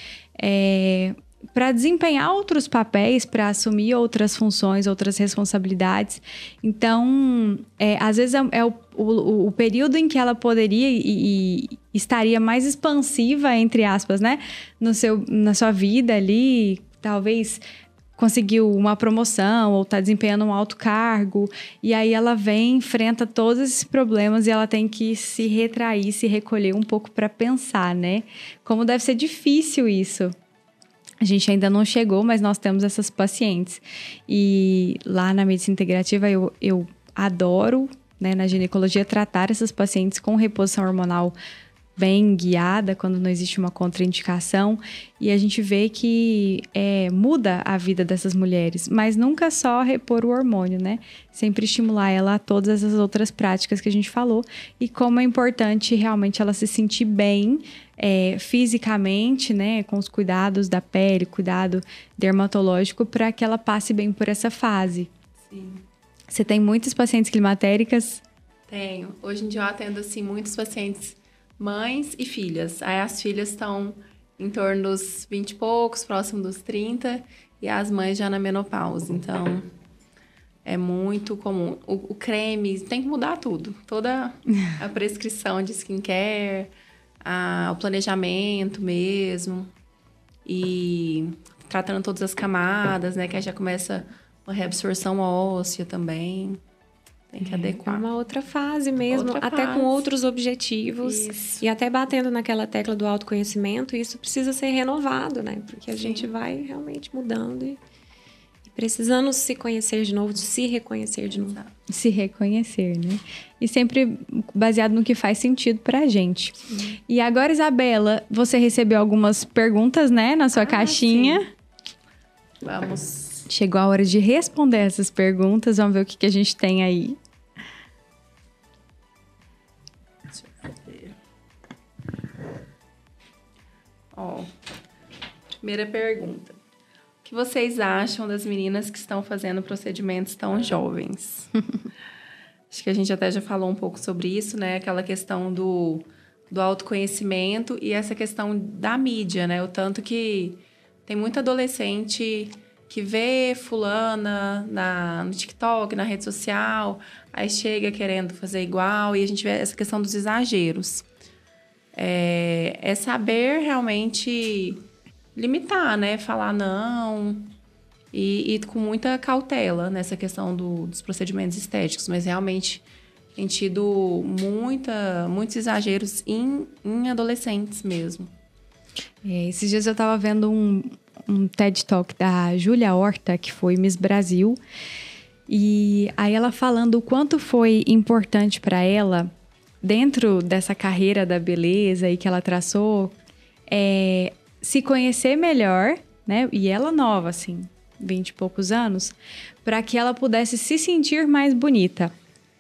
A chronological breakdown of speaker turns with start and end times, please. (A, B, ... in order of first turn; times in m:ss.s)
0:00.4-0:17.6 A
0:18.2-0:30.3 A
0:31.2-0:41.3 A
0:42.0-1:05.1 A
1:05.4-1:05.8 B
1:06.3-1:08.2 A
1:08.7-1:19.7 B
1:20.6-1:26.7 B
1:27.2-1:29.7 B
1:30.4-1:36.6 B
1:37.3-1:38.1 B
1:37.6-1:47.8 C
1:39.1-1:40.1 B
1:41.0-1:41.6 B
1:46.0-1:46.3 B
1:48.7-1:51.6 C
1:51.3-1:51.7 B
1:51.9-2:01.5 A
2:00.6-2:01.4 B
2:02.6-2:03.5 B
2:03.5-2:07.2 A
2:10.3-2:11.2 B
2:14.2-2:14.5 B
2:15.6-2:16.6 B
2:17.2-2:21.5 B
2:22.7-2:41.1 B
2:41.9-2:44.8 B
2:45.4-2:47.5 B
2:48.1-2:52.8 B
2:53.4-2:58.3 B
2:59.2-3:04.6 A
3:05.5-3:09.3 A
3:09.8-3:13.1 A
3:13.7-3:22.1 A